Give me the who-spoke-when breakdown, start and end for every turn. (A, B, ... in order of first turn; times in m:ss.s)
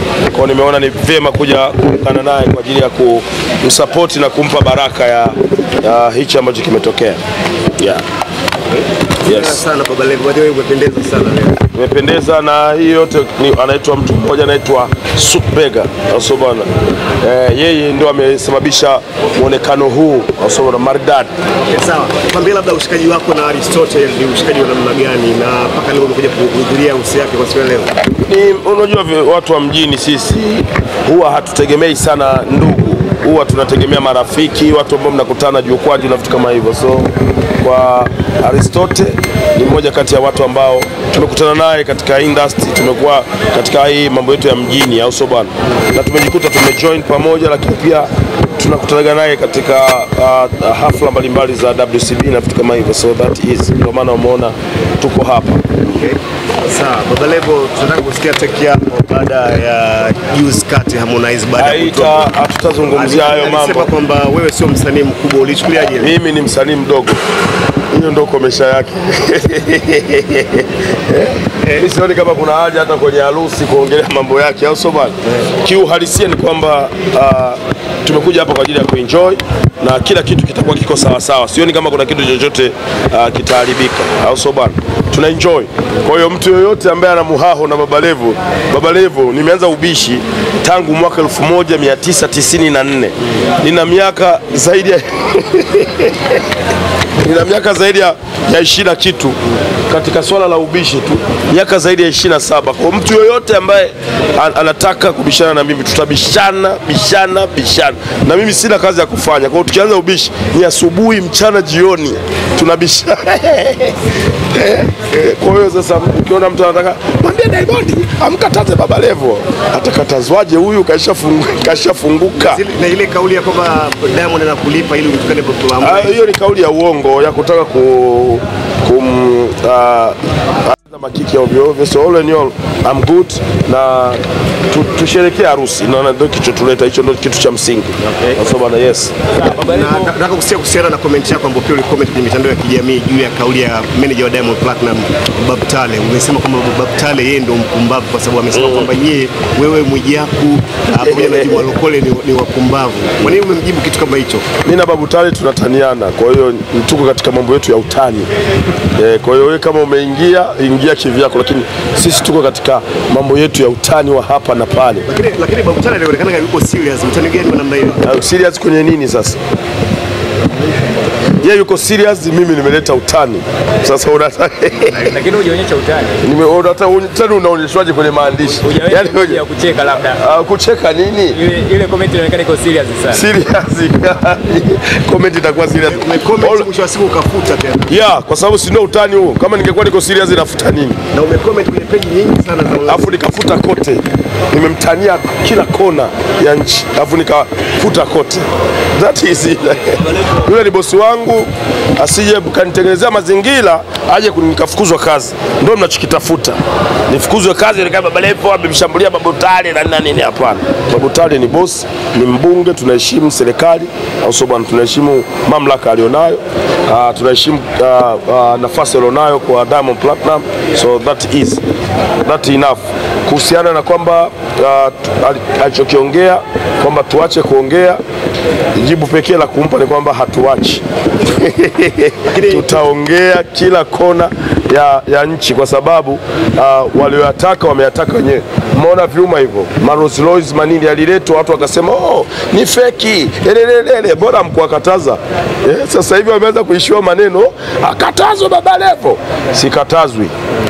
0:00.3-0:07.2 A
0:07.8-0:08.0 A
0:09.2-0:11.6 B
0:09.2-0:09.6 A
0:11.7-0:16.7 A
0:17.2-0:21.3 A
0:21.7-0:27.9 B
0:28.1-0:55.8 A
0:55.9-1:02.3 B
1:01.6-1:03.9 A
1:02.9-1:06.1 B
1:06.0-1:07.2 A
1:07.9-1:36.4 A
1:37.2-1:54.0 A
1:54.5-2:02.6 A
2:02.4-2:06.3 B
2:05.8-2:19.1 A
2:19.3-2:20.1 C
2:19.5-2:34.4 B
2:28.5-2:28.9 A
2:31.0-2:31.6 A
2:34.6-2:38.3 A
2:38.9-2:45.1 A
2:45.1-2:48.1 B
2:48.0-2:49.4 A
2:51.4-2:55.1 A
2:54.9-2:56.2 C
2:56.2-2:59.4 A
2:58.6-3:00.2 C
3:00.1-3:01.4 A
3:01.3-3:03.2 C
3:03.1-3:06.6 A
3:05.8-3:07.9 B
3:07.9-3:11.0 A
3:11.1-3:13.2 B
3:12.9-3:26.6 A
3:27.1-3:41.6 A
3:42.2-3:48.0 A
3:48.7-4:10.3 A
3:52.3-3:52.8 B